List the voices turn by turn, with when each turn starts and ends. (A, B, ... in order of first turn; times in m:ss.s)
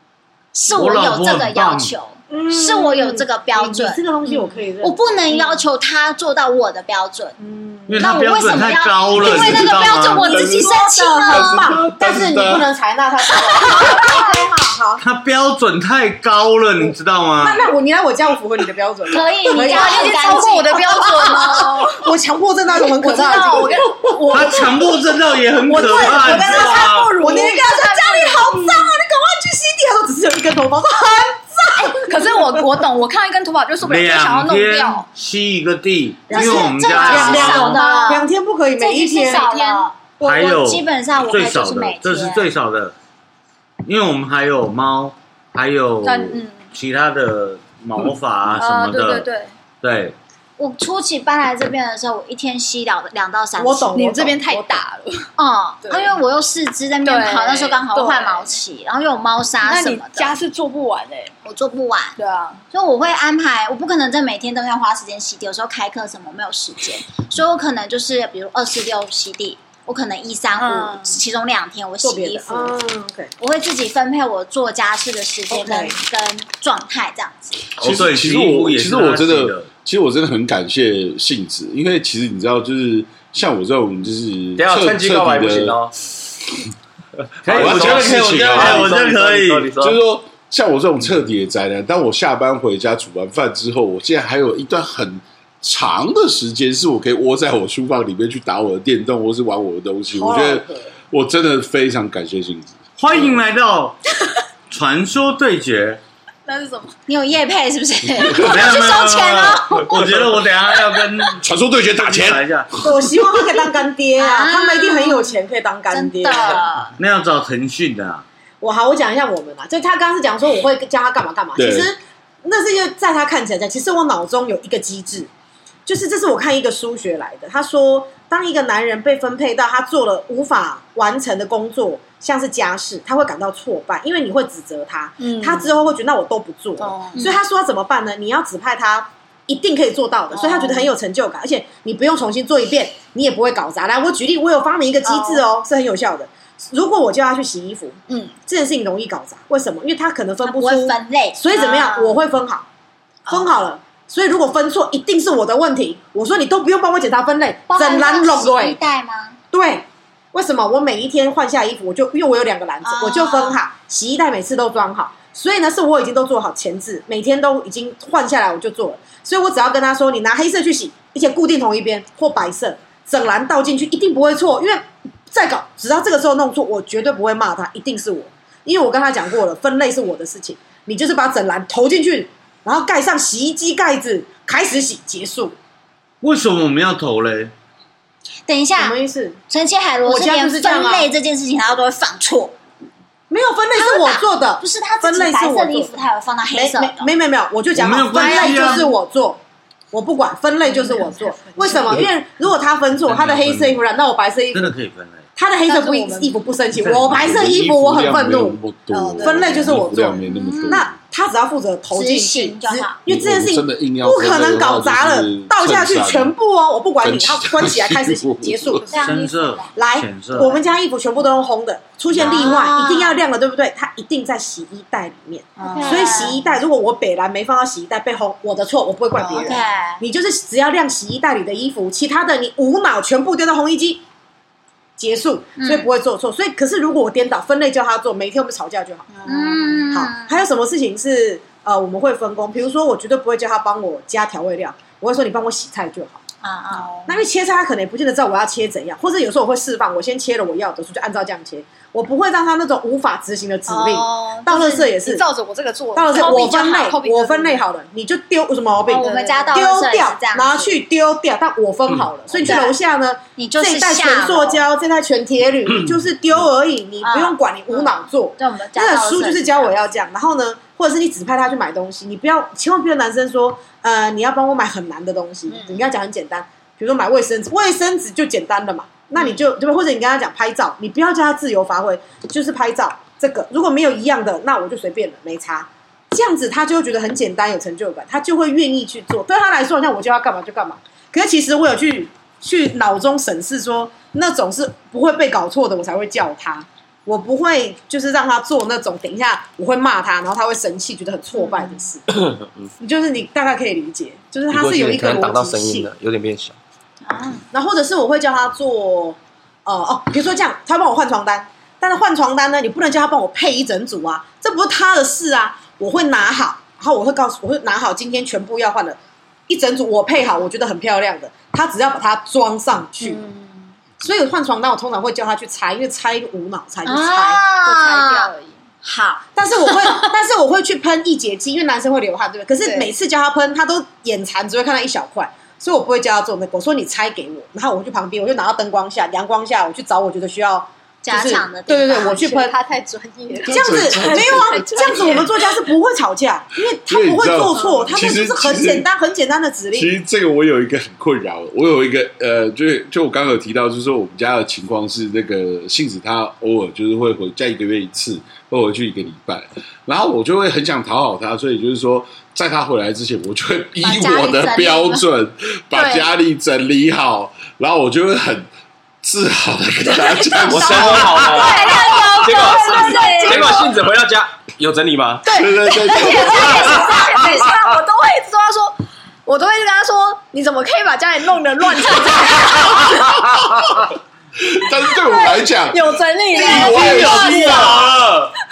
0:00.5-0:07.4 A
0:00.7-0:01.9 B
0:02.3-0:05.6 C
0:07.4-0:08.3 C
0:07.9-0:10.3 B
0:07.9-0:11.6 A
0:09.2-0:09.7 D
0:09.3-0:15.0 C
0:10.2-0:12.7 D
0:13.4-0:14.2 A
0:15.0-0:17.7 B
0:16.8-0:20.3 C
0:19.1-0:21.0 A
0:19.5-0:22.1 E
0:21.0-0:24.9 C
0:22.7-0:24.6 E
0:24.3-0:27.2 B
0:25.7-0:32.6 C
0:25.7-0:28.9 E
0:32.0-0:35.1 E
0:33.8-0:37.8 B
0:36.3-0:39.5 C
0:36.3-0:42.5 A
0:37.0-0:38.3 E
0:39.0-0:39.9 E
0:40.2-0:42.9 B
0:43.8-0:49.3 B
0:46.0-0:46.7 E
0:48.6-0:49.5 E
0:49.8-0:50.2 B
0:50.6-0:54.0 A
0:53.6-0:54.8 C
0:53.9-0:55.3 E
0:55.4-1:00.3 A
0:55.8-0:56.2 E
0:57.0-0:58.5 E
0:59.6-1:01.3 E
1:01.4-1:02.2 A
1:02.2-1:02.6 E
1:02.7-1:12.8 A
1:10.6-1:11.2 E
1:12.0-1:13.3 C
1:13.4-1:17.6 A
1:15.5-1:16.0 C
1:17.8-1:25.9 D
1:17.8-1:19.7 B
1:24.6-1:25.9 F
1:27.4-1:30.0 F
1:27.4-1:29.7 B
1:27.5-1:29.0 D
1:29.8-1:43.4 D
1:40.1-1:40.9 C
1:43.0-1:44.0 B
1:44.7-1:46.0 B
1:46.4-1:46.9 E
1:47.1-1:50.1 A
1:48.3-1:51.4 B
1:50.7-1:51.0 E
1:51.4-1:53.0 D
1:52.0-1:52.7 B
1:52.8-1:56.6 C
1:54.2-1:55.4 A
1:55.9-1:57.0 A
1:57.0-1:58.2 B
1:58.6-2:05.3 C
2:01.6-2:01.9 D
2:05.8-2:32.6 C
2:15.2-2:15.8 E
2:16.8-2:17.3 E
2:20.3-2:20.9 E
2:25.0-2:25.4 E
2:28.1-2:28.3 E
2:30.4-2:32.1 A
2:31.5-2:31.9 E
2:33.3-2:38.8 C
2:37.7-2:39.4 A
2:39.5-3:05.5 C
2:42.8-2:43.6 A
3:06.2-3:07.5 B
3:08.4-3:09.0 A
3:08.8-3:09.4 C
3:09.5-3:12.6 A
3:10.0-3:11.1 C
3:13.3-3:16.0 C
3:13.7-3:17.1 A
3:16.5-3:19.4 C
3:17.7-3:18.8 B
3:18.2-3:18.9 E
3:19.9-3:24.7 C
3:20.6-3:22.0 E
3:23.1-3:23.8 B
3:24.5-3:25.2 B
3:25.4-3:28.6 C
3:25.6-3:26.4 E
3:26.8-3:27.1 B
3:26.8-3:30.9 D
3:28.9-3:29.5 E
3:29.2-3:39.1 C
3:30.3-3:30.8 A
3:31.9-3:33.0 A
3:33.1-3:36.3 D
3:37.0-3:38.8 D
3:38.9-3:39.7 A
3:39.0-3:40.5 B
3:39.7-3:54.0 C
3:42.1-3:43.2 A
3:45.6-3:46.5 A
3:45.7-3:46.3 E
3:49.2-3:49.6 E
3:49.2-3:50.0 A
3:55.0-3:59.2 C
3:55.6-3:55.9 A
3:59.1-3:59.8 E
3:59.2-4:00.4 A
3:59.9-4:06.2 C
4:06.4-4:07.2 A
4:07.0-4:15.2 C
4:13.7-4:14.4 A
4:13.7-4:17.6 E
4:16.0-5:02.0 C
4:16.2-4:16.5 A
4:18.9-4:20.8 A
4:19.0-4:19.6 E
4:22.4-4:22.7 A
4:23.4-4:24.6 A
4:27.0-4:29.8 A
5:01.4-5:01.8 A
5:02.2-5:02.7 F
5:02.8-5:05.9 C
5:04.5-5:06.6 F
5:07.0-5:07.4 A
5:07.5-5:23.2 C
5:23.0-5:23.7 E
5:24.0-5:27.4 C
5:26.8-5:28.3 A
5:27.6-5:28.5 E
5:28.8-5:29.8 A
5:29.4-5:42.6 C
5:32.6-5:32.9 E
5:41.0-5:42.2 A
5:42.1-5:45.6 E
5:43.4-5:44.6 D
5:43.5-5:49.9 C
5:46.9-5:48.9 D
5:47.5-5:47.9 E
5:49.7-6:08.5 D
6:03.8-6:05.0 A
6:05.7-6:06.1 E
6:09.0-6:12.2 D
6:09.9-6:13.7 E
6:10.5-6:15.3 F
6:12.0-6:13.4 A
6:15.2-6:23.3 E
6:15.3-6:17.5 D
6:22.9-6:27.8 D
6:24.9-6:28.0 E
6:26.3-6:28.3 B